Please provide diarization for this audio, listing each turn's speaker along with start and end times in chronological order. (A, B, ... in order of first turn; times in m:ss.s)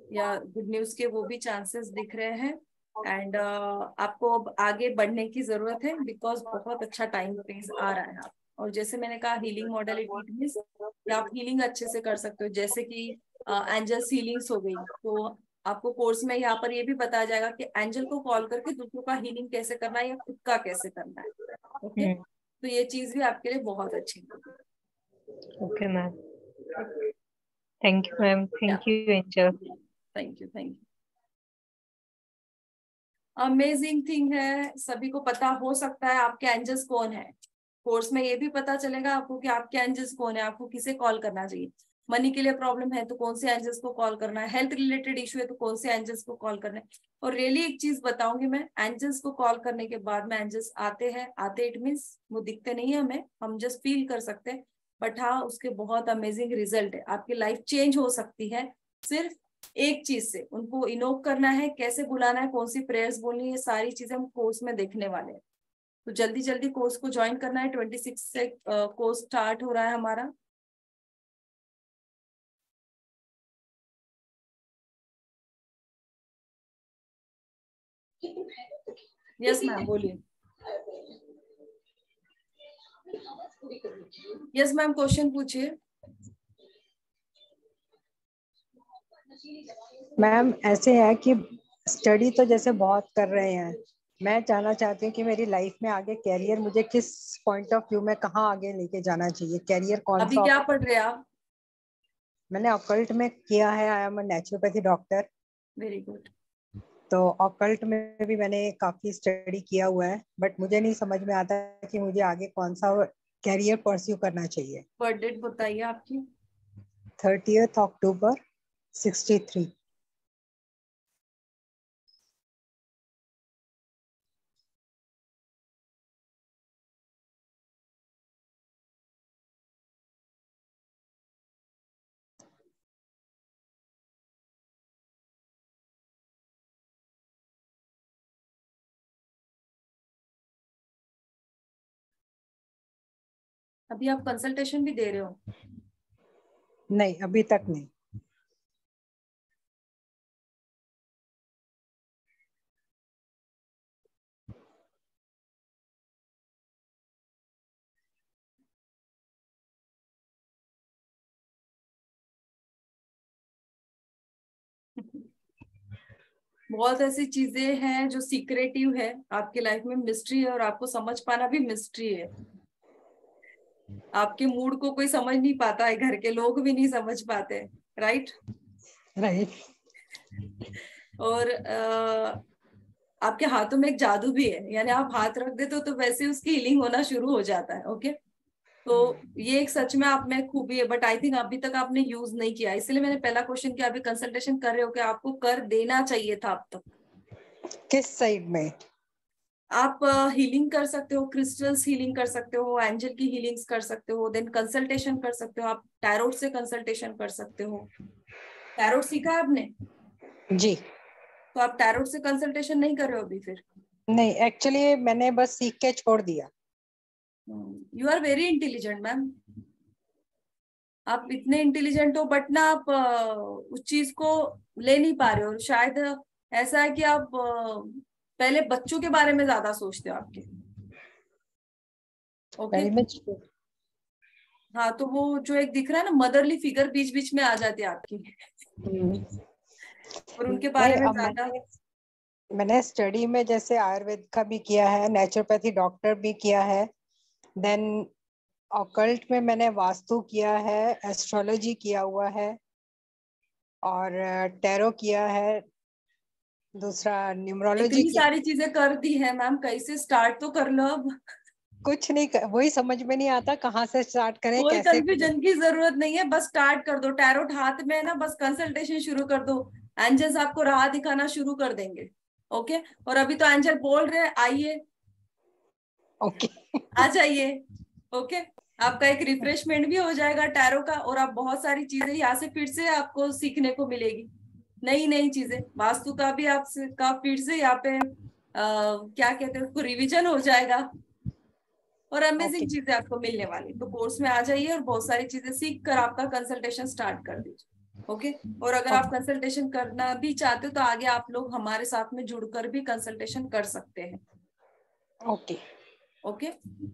0:00.1-0:21.3 A
0:21.8-0:24.5 A
0:25.6-0:26.2 B
0:27.8-0:29.6 B
0:30.2-0:30.8 A
0:33.4-0:37.3 A
0:37.8-1:05.4 A
1:06.1-1:10.3 A
1:19.4-1:20.2 A
1:24.5-1:25.7 A
1:30.2-1:40.6 C
1:40.2-1:41.2 A
1:42.5-1:45.3 C
1:45.8-1:46.3 A
1:47.1-1:54.8 C
1:55.0-1:56.2 A
1:57.2-1:58.4 C
1:59.0-1:59.7 C
2:23.9-2:25.4 A
2:26.9-2:27.9 C
2:46.7-2:52.3 A
2:54.1-2:58.3 A
2:59.2-2:59.6 C
3:01.2-3:02.4 A
3:03.2-3:08.2 A
3:08.9-3:16.9 A
3:17.9-3:18.8 C
3:19.8-3:27.9 A
3:28.8-3:29.7 A
3:30.5-3:30.8 C
3:31.6-3:33.6 A
3:34.1-3:36.5 C
3:37.5-3:39.4 A
3:41.1-3:50.5 A
3:52.6-3:52.9 A
3:52.7-3:53.4 C
3:54.8-3:58.4 A
3:58.8-3:59.4 C
4:00.4-4:01.6 A
4:00.5-4:01.7 C
4:02.6-4:06.9 C
4:07.6-4:08.1 C
4:08.8-4:12.6 C
4:13.8-4:15.6 C
4:16.8-4:18.2 C
4:17.8-4:21.1 A
4:21.8-4:25.3 C
4:24.6-4:34.8 A
4:36.2-4:36.8 C
4:36.9-4:37.6 A
4:38.1-4:44.3 A
4:44.8-4:50.9 A
4:52.1-5:04.2 A
4:52.4-4:52.7 C
5:05.3-5:05.6 C
5:06.2-5:06.5 A